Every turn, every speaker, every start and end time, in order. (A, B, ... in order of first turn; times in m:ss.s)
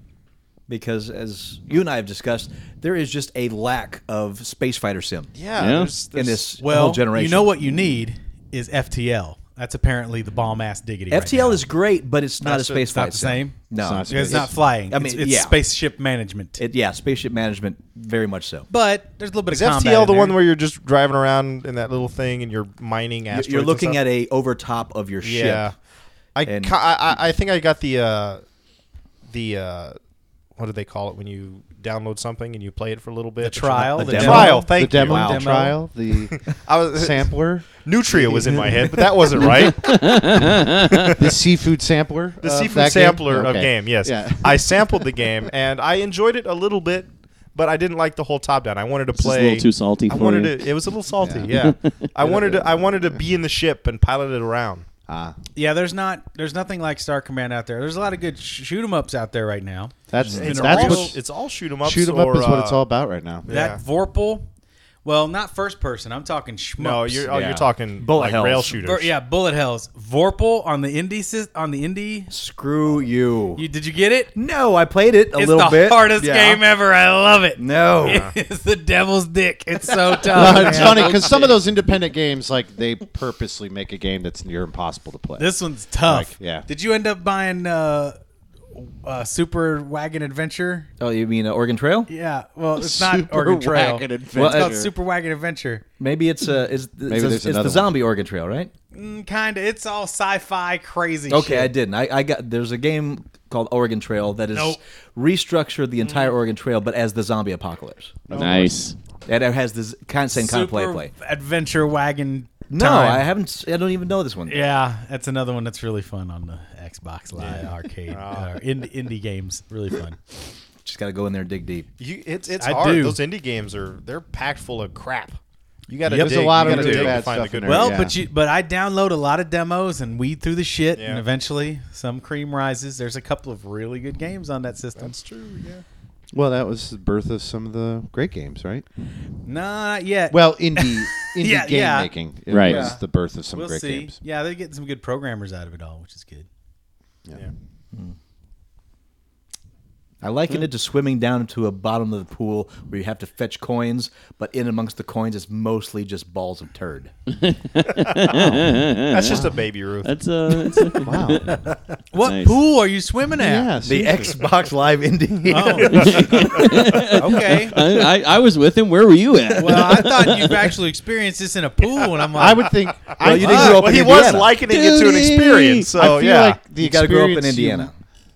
0:00.7-0:05.3 A
0:05.3-0:06.6 B
0:05.6-0:06.0 C
0:06.0-0:07.5 A
0:06.6-0:11.6 D
0:11.1-0:15.6 A
0:12.4-0:12.9 B
0:12.8-0:16.6 D
0:13.8-0:14.5 E
0:16.6-0:18.7 A
0:18.7-0:20.4 D
0:19.5-0:24.0 B
0:23.3-0:25.7 A
0:25.2-0:25.8 B
0:26.4-0:28.4 B
0:26.4-0:26.8 A
0:29.3-0:30.0 B
0:30.6-0:35.5 B
0:33.4-0:35.8 D
0:34.0-0:34.6 A
0:34.1-0:39.4 E
0:36.3-0:41.2 B
0:39.6-0:41.1 C
0:41.1-0:44.8 E
0:42.4-0:54.9 B
0:49.2-0:50.8 C
0:51.2-0:51.5 E
0:51.4-0:52.4 C
0:52.3-0:52.6 E
0:55.1-0:55.4 E
0:55.6-1:01.2 D
1:00.1-1:01.2 E
1:00.2-1:02.8 B
1:01.8-1:03.5 E
1:03.4-1:03.8 B
1:03.5-1:04.5 D
1:05.0-1:07.3 D
1:06.8-1:09.1 B
1:07.3-1:08.7 A
1:08.8-1:12.3 D
1:12.3-1:13.6 A
1:13.6-1:14.3 D
1:14.4-1:16.6 A
1:15.3-1:21.2 D
1:17.6-1:18.3 A
1:18.0-1:18.3 B
1:19.9-1:21.3 A
1:20.3-1:26.7 E
1:25.4-1:28.2 D
1:28.7-1:30.9 D
1:31.0-1:32.1 A
1:32.1-1:35.8 D
1:32.8-1:34.9 E
1:34.4-1:34.8 A
1:36.0-1:38.7 A
1:37.1-1:37.9 E
1:38.9-1:41.7 D
1:41.3-1:48.3 A
1:44.5-1:44.8 D
1:48.3-1:48.8 B
1:48.3-1:49.0 C
1:49.3-1:51.1 A
1:50.3-1:53.3 D
1:52.7-1:54.6 A
1:54.5-2:00.2 D
1:58.1-1:58.6 B
2:00.8-2:01.9 A
2:02.0-2:08.0 B
2:02.6-2:03.2 D
2:06.1-2:06.3 D
2:06.2-2:08.2 E
2:06.6-2:07.2 A
2:07.6-2:15.2 D
2:11.0-2:11.2 B
2:15.0-2:15.8 B
2:16.3-2:18.9 E
2:19.5-2:22.1 D
2:20.3-2:24.2 E
2:22.5-2:22.9 C
2:23.5-2:26.5 D
2:30.2-2:37.1 A
2:37.3-2:39.5 C
2:38.3-2:39.6 E
2:39.1-2:40.2 B
2:40.0-2:41.6 C
2:41.0-2:41.5 E
2:42.1-2:43.7 D
2:42.2-2:42.6 C
2:43.4-2:44.4 E
2:43.8-2:47.0 A
2:45.5-2:46.4 D
2:45.6-2:47.2 B
2:45.9-2:50.7 C
2:47.2-2:47.8 D
2:49.6-2:52.7 D
2:52.4-2:54.0 E
2:53.1-2:56.6 B
2:53.2-2:54.5 A
2:53.3-2:54.0 D
2:54.6-2:55.9 C
2:55.9-2:57.9 E
2:56.7-2:58.0 A